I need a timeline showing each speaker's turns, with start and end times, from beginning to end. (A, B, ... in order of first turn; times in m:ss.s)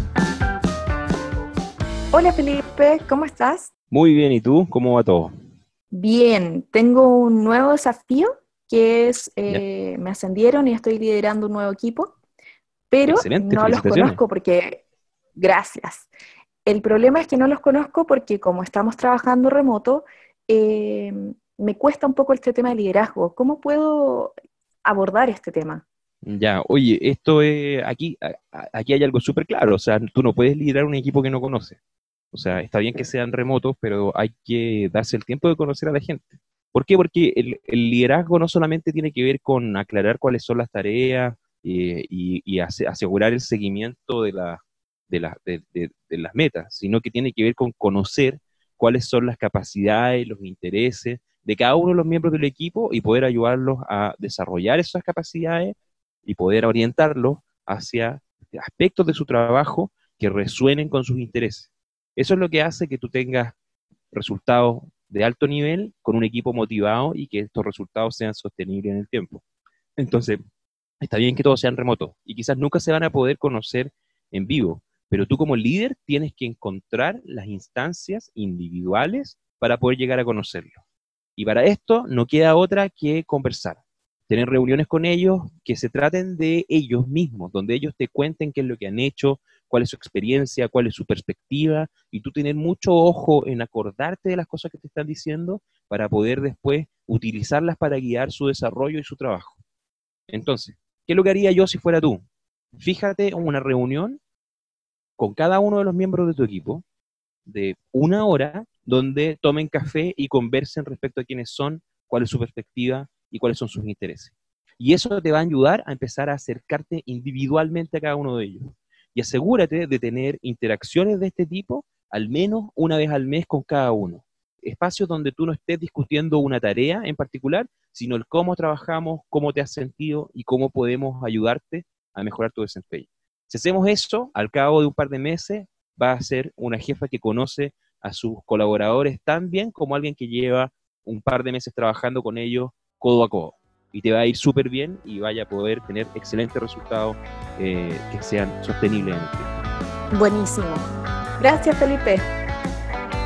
0:02.1-0:03.7 A
0:03.9-0:05.3 B
0:05.9-0:12.1 A
0:12.9-0:14.8 A
0:13.1-0:14.2 B
0:15.4-0:16.1 A
0:16.6-0:25.8 A
0:26.2-0:31.8 B
0:32.3-0:55.7 B
0:56.3-1:03.6 B
1:04.1-1:09.4 B
1:10.0-1:10.4 B
1:11.0-1:20.7 B
1:21.4-1:39.6 B
1:40.3-1:42.2 B
1:42.8-1:44.2 B
1:45.2-1:46.8 B
1:47.5-2:29.5 B
2:30.1-2:30.9 A
2:31.4-2:32.3 A